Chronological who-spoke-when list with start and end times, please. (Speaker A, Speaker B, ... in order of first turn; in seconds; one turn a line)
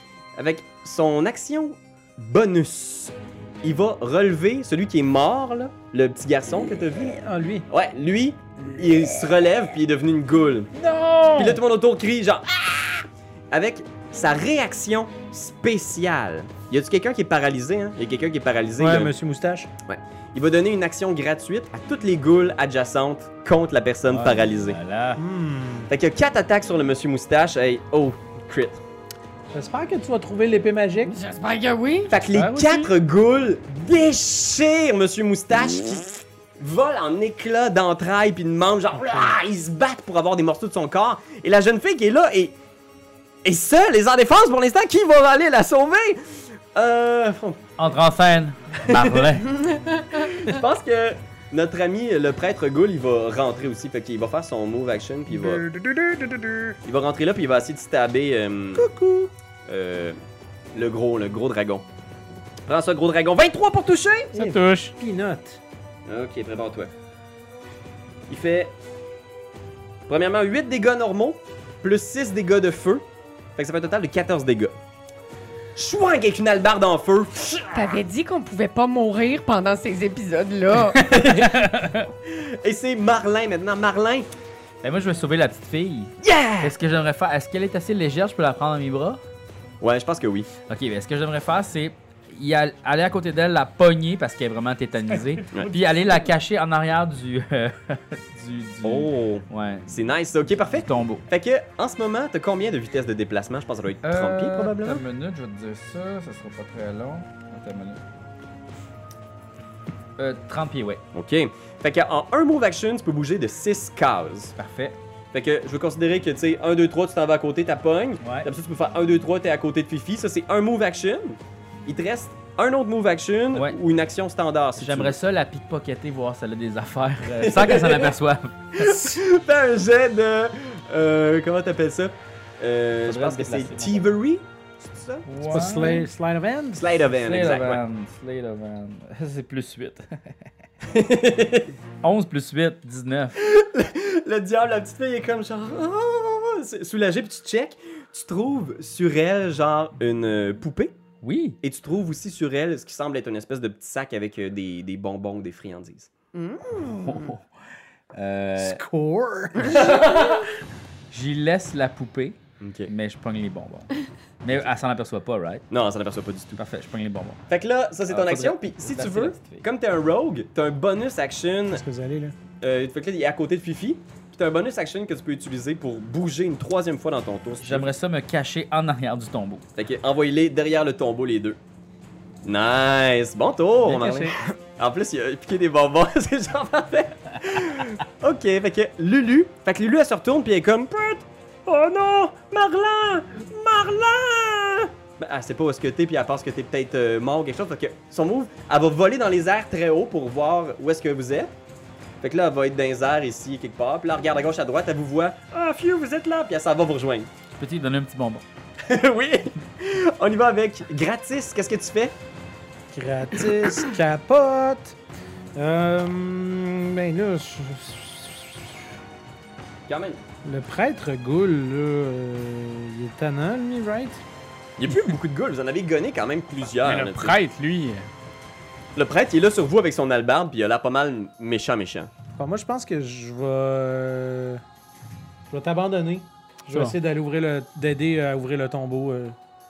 Speaker A: 0.4-7.2
Speaker B: 7.1-7.7
Speaker A: 7.7-10.7
Speaker C: 10.8-11.5
Speaker B: 10.9-11.5
Speaker A: 11.4-19.1
Speaker B: 18.8-19.7
Speaker A: 19.9-24.8
Speaker D: 24.1-25.2
Speaker B: 25.2-25.9
Speaker A: 25.9-28.8
Speaker B: 29.5-31.1
Speaker E: 31.1-32.2
Speaker A: 32.1-42.5
Speaker C: 32.4-32.7
Speaker A: 43.4-47.6
Speaker D: 47.8-49.5
Speaker A: 48.9-55.6
Speaker B: 55.4-56.7
Speaker A: 56.8-58.9
Speaker B: 58.8-59.3
Speaker A: 59.7-60.2
Speaker A: 60.7-61.9
Speaker A: 62.7-64.3
Speaker C: 64.3-65.0
Speaker B: 64.3-65.6
Speaker A: 66.1-66.9
Speaker A: 68.3-68.7
Speaker A: 70.1-73.0
Speaker A: 73.6-74.8
Speaker A: 75.8-78.0
Speaker E: 77.7-81.2
Speaker A: 81.0-84.3
Speaker C: 81.2-82.1
Speaker D: 84.8-89.2
Speaker A: 86.2-86.8
Speaker A: 89.8-90.5
Speaker D: 90.7-100.0
Speaker A: 98.8-105.0
Speaker D: 100.6-101.2
Speaker D: 104.0-108.0
Speaker D: 110.2-111.0
Speaker A: 111.1-114.5
Speaker D: 114.6-115.0
Speaker A: 115.3-125.2
Speaker D: 118.2-118.5
Speaker D: 123.5-123.8
Speaker D: 124.8-129.0
Speaker A: 127.4-128.2
Speaker A: 128.7-135.3
Speaker D: 133.1-134.1
Speaker D: 135.3-136.1
Speaker B: 135.5-136.9
Speaker A: 136.8-137.8
Speaker D: 137.1-140.4
Speaker A: 140.8-141.7
Speaker D: 142.0-143.4
Speaker A: 143.4-151.0
Speaker D: 151.2-151.6
Speaker A: 151.6-156.1
Speaker E: 156.3-157.3
Speaker D: 156.8-157.4
Speaker D: 158.2-158.8
Speaker B: 158.6-159.9
Speaker A: 159.6-160.5
Speaker E: 159.8-160.2
Speaker D: 161.1-163.9
Speaker A: 162.6-162.9
Speaker D: 164.4-165.7
Speaker A: 165.7-166.6
Speaker D: 166.6-167.4
Speaker A: 167.5-171.8
Speaker D: 168.1-169.7
Speaker B: 171.7-172.3
Speaker A: 172.6-177.9
Speaker D: 177.6-179.6
Speaker A: 179.8-181.6
Speaker A: 182.4-201.5
Speaker C: 183.9-184.3
Speaker A: 202.2-207.3
Speaker D: 207.5-208.4
Speaker A: 208.8-212.2
Speaker B: 212.9-215.0
Speaker A: 213.4-213.9
Speaker B: 215.6-218.8
Speaker A: 219.9-220.2
Speaker B: 220.4-224.2
Speaker A: 224.8-227.4
Speaker C: 226.8-228.1
Speaker A: 229.0-232.1
Speaker B: 232.4-234.6
Speaker B: 235.5-239.4